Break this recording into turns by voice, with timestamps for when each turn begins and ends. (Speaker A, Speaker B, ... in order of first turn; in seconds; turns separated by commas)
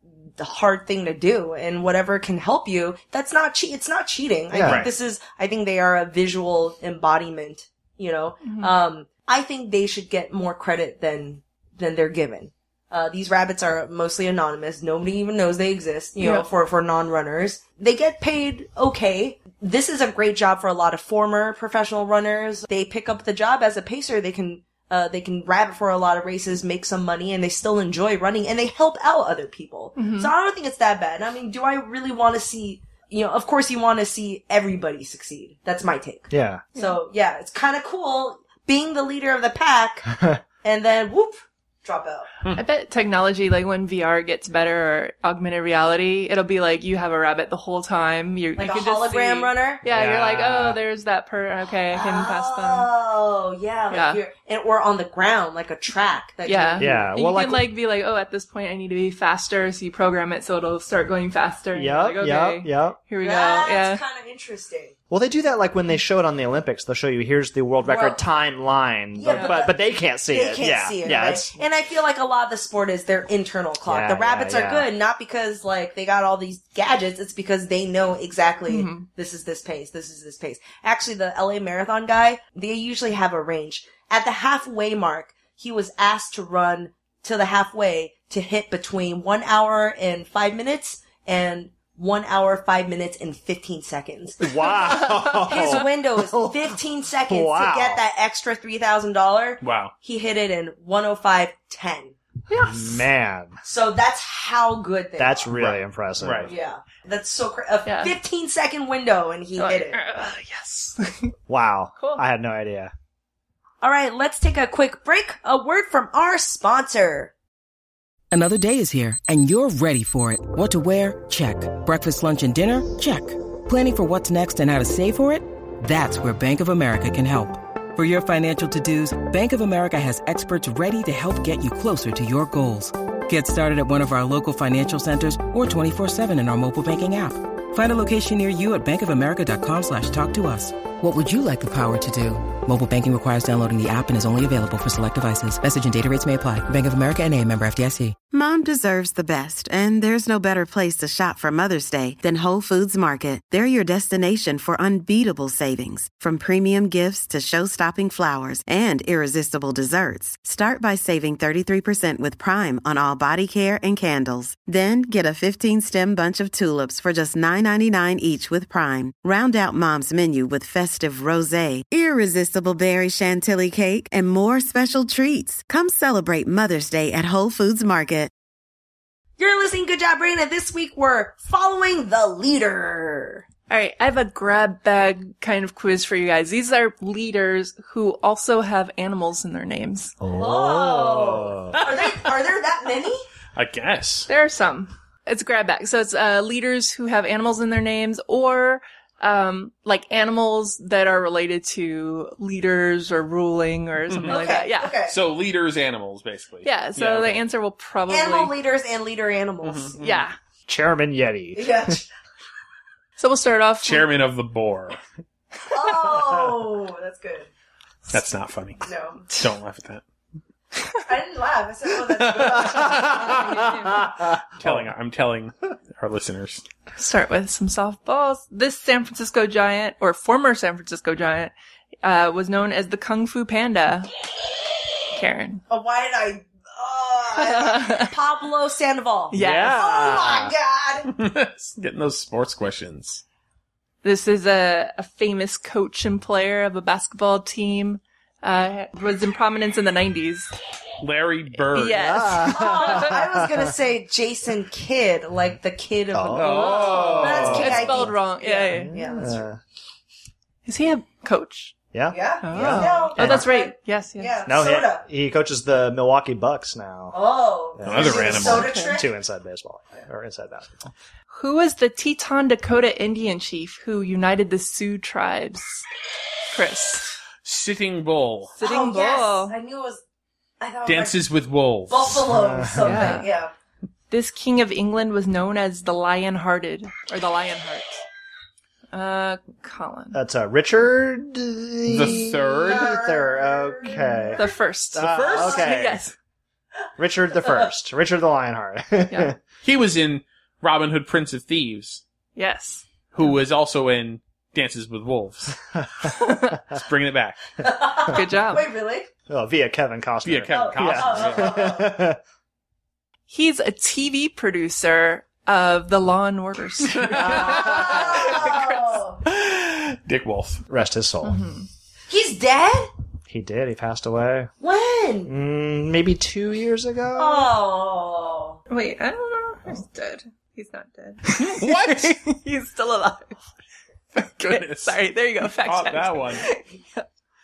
Speaker A: 0.4-40.1, Speaker B: 4.5-4.9, Speaker C: 4.6-4.9, Speaker D: 8.4-8.7, Speaker D: 16.2-16.5, Speaker D: 29.9-30.3, Speaker B: 36.3-36.6, Speaker B: 40.1-40.4, Speaker A: 40.6-42.3, Speaker D: 42.5-52.9, Speaker A: 48.6-49.8, Speaker B: 49.8-50.8, Speaker A: 51.9-57.0, Speaker D: 53.9-54.2, Speaker D: 56.5-64.0, Speaker B: 56.8-57.7, Speaker B: 61.7-63.0, Speaker A: 63.2-64.9, Speaker B: 65.1-71.6, Speaker A: 67.8-68.2, Speaker A: 69.1-102.1, Speaker D: 69.3-69.6, Speaker B: 73.8-74.9, Speaker D: 78.7-79.0, Speaker B: 94.4-96.8, Speaker D: 95.1-95.6, Speaker B: 97.3-98.0, Speaker C: 99.6-99.9, Speaker D: 102.5-103.0, Speaker B: 102.6-103.5, Speaker A: 103.6-105.5, Speaker B: 105.2-106.5, Speaker C: 105.5-106.5, Speaker A: 106.5-110.0, Speaker D: 107.8-108.1, Speaker D: 109.6-111.3, Speaker B: 111.5-112.9, Speaker A: 113.8-117.3, Speaker E: 118.3-148.2, Speaker F: 148.3-178.3, Speaker A: 179.4-183.4, Speaker D: 183.7-190.2, Speaker B: 190.2-191.8, Speaker A: 190.3-193.2, Speaker C: 191.7-192.2, Speaker C: 193.5-194.3, Speaker D: 194.3-205.0, Speaker C: 204.1-204.5, Speaker A: 204.2-205.1, Speaker C: 205.1-207.4, Speaker D: 206.6-208.5, Speaker A: 208.1-209.9, Speaker C: 209.6-210.3, Speaker D: 210.0-210.3, Speaker B: 210.7-212.0, Speaker A: 211.5-212.1, Speaker D: 213.2-214.1, Speaker C: 213.8-215.0, Speaker A: 215.7-217.5, Speaker C: 218.1-220.0, Speaker A: 218.8-219.2, Speaker A: 221.1-223.7, Speaker C: 222.2-223.4, Speaker D: 222.9-224.1, Speaker B: 224.1-224.9, Speaker C: 224.6-226.6, Speaker D: 226.9-234.1, Speaker D: 235.1-235.6, Speaker A: 235.7-241.1, Speaker D: 237.4-238.1, Speaker D: 239.3-239.8, Speaker B: 239.3-240.5, Speaker C: 241.1-243.2, Speaker D: 244.0-250.5, Speaker C: 251.0-252.2, Speaker D: 251.7-253.1, Speaker B: 251.9-253.7, Speaker A: 252.5-259.4, Speaker B: 256.1-258.1, Speaker C: 256.3-257.8, Speaker D: 257.1-259.1, Speaker B: 258.7-259.6, Speaker D: 260.6-261.8, Speaker B: 261.9-263.4, Speaker A: 262.1-265.0, Speaker D: 262.4-264.4, Speaker B: 264.4-267.2, Speaker A: 267.1-269.1, Speaker B: 267.8-270.9, Speaker C: 267.8-268.7, Speaker D: 268.4-269.0, Speaker D: 271.3-275.8, Speaker D: 276.5-277.1, Speaker C: 277.4-278.5, Speaker D: 278.6-279.5, Speaker A: 278.6-280.0, Speaker A: 280.6-281.2, Speaker C: 280.8-282.2, Speaker A: 281.9-283.5, Speaker B: 282.3-283.2, Speaker D: 282.8-283.3, Speaker D: 284.1-288.0, Speaker D: 288.9-290.2, Speaker B: 290.1-294.4, Speaker C: 291.9-293.0, Speaker A: 292.6-294.5, Speaker D: 294.4-296.1, Speaker B: 294.9-296.0, Speaker C: 295.0-295.5, Speaker B: 297.0-299.4, Speaker C: 299.6-302.0, Speaker D: 302.4-302.8, Speaker C: 303.1-305.6, Speaker B: 305.8-306.5, Speaker D: 306.2-306.5, Speaker C: 306.7-307.4, Speaker A: 307.6-309.1, Speaker D: 308.1-308.7, Speaker B: 309.3-312.2, Speaker C: 310.2-311.7, Speaker A: 310.5-311.9, Speaker D: 313.3-319.0, Speaker C: 316.8-318.4, Speaker A: 317.3-319.2, Speaker C: 319.2-320.6, Speaker B: 320.7-321.4, Speaker D: 321.2-321.7, Speaker A: 322.1-322.9, Speaker B: 323.3-324.5, Speaker A: 324.6-325.3, Speaker B: 325.3-327.5, Speaker A: 327.1-328.6, Speaker D: 328.7-333.4, Speaker C: 331.3-332.2, Speaker C: 334.1-336.5, Speaker D: 334.2-337.0